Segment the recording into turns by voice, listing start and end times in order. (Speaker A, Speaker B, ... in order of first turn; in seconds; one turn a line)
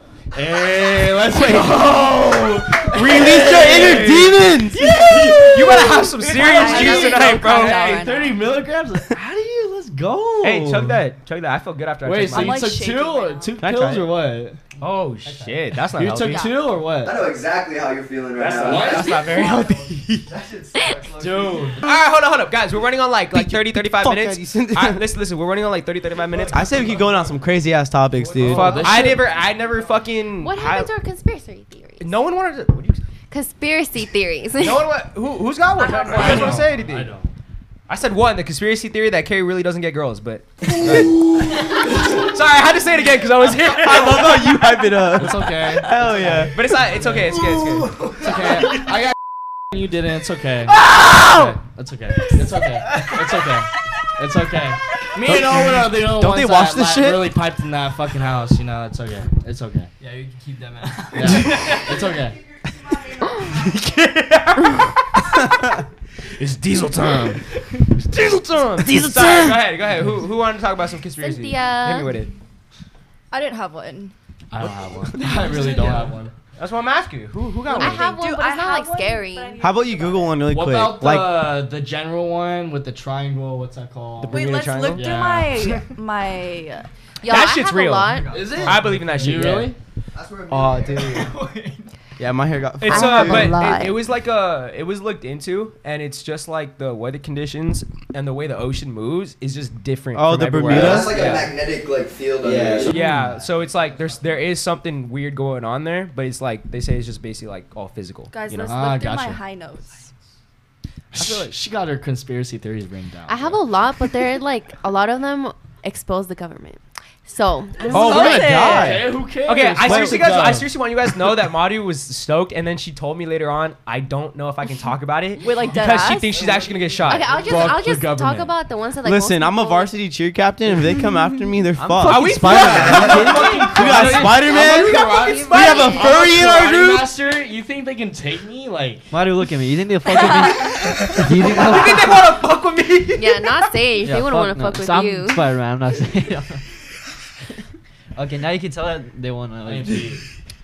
Speaker A: 0.3-11.0
Speaker B: 2.8-4.4
Speaker C: 2.9-4.9
Speaker D: 5.1-8.4
Speaker B: 5.1-8.1
Speaker E: 6.4-7.4
Speaker B: 10.4-12.7
Speaker A: 12.0-14.6
Speaker D: 12.3-13.6
Speaker B: 13.6-14.1
Speaker B: 14.8-16.4
Speaker A: 15.8-17.2
Speaker D: 16.3-16.6
Speaker F: 17.0-21.8
Speaker B: 18.4-20.3
Speaker A: 18.5-19.4
Speaker A: 21.2-21.9
Speaker B: 21.8-27.1
Speaker C: 23.3-25.0
Speaker A: 26.3-27.2
Speaker C: 26.5-29.2
Speaker A: 28.2-29.5
Speaker B: 28.4-30.9
Speaker E: 30.4-32.1
Speaker B: 32.0-33.0
Speaker E: 33.3-34.9
Speaker B: 34.6-37.1
Speaker E: 35.8-36.6
Speaker A: 36.1-37.3
Speaker B: 37.9-45.3
Speaker C: 43.7-46.5
Speaker A: 45.1-49.1
Speaker B: 46.5-48.1
Speaker A: 49.7-59.9
Speaker C: 55.2-57.4
Speaker G: 60.0-62.0
Speaker A: 61.1-62.4
Speaker B: 61.4-61.8
Speaker E: 63.2-63.7
Speaker B: 63.4-65.4
Speaker A: 66.4-67.4
Speaker B: 67.8-72.3
Speaker A: 69.0-70.0
Speaker G: 69.0-69.4
Speaker E: 71.2-72.2
Speaker D: 73.3-74.1
Speaker A: 74.5-76.3
Speaker D: 75.2-76.0
Speaker B: 76.6-78.1
Speaker D: 77.7-80.4
Speaker E: 77.7-79.7
Speaker C: 79.6-81.6
Speaker A: 80.5-85.8
Speaker B: 84.2-85.1
Speaker D: 84.3-86.9
Speaker E: 87.2-88.5
Speaker B: 87.2-89.7
Speaker A: 88.3-89.8
Speaker F: 88.3-88.7
Speaker G: 89.1-89.6
Speaker F: 90.1-91.3
Speaker B: 90.5-91.1
Speaker G: 91.0-91.9
Speaker C: 92.2-93.6
Speaker B: 92.8-101.5
Speaker E: 92.9-94.0
Speaker C: 100.1-101.4
Speaker F: 100.6-103.0
Speaker C: 102.4-103.0
Speaker B: 102.8-108.7
Speaker A: 102.9-104.3
Speaker D: 108.3-110.1
Speaker A: 108.6-109.4
Speaker A: 111.1-113.6
Speaker B: 111.2-111.5
Speaker E: 113.3-118.6
Speaker D: 117.9-119.0
Speaker C: 117.9-119.2
Speaker B: 117.9-118.5
Speaker A: 118.5-120.7
Speaker B: 119.5-127.8
Speaker C: 119.8-120.6
Speaker D: 125.4-126.4
Speaker A: 126.3-128.5
Speaker E: 127.1-129.9
Speaker C: 129.0-137.1
Speaker B: 131.8-134.4
Speaker G: 131.9-133.4
Speaker A: 132.4-139.1
Speaker E: 134.3-136.5
Speaker B: 135.3-136.1
Speaker G: 139.1-142.2
Speaker D: 140.1-140.8
Speaker B: 141.0-143.6
Speaker E: 143.2-145.5
Speaker G: 144.0-146.6
Speaker G: 148.2-150.1
Speaker A: 149.6-150.2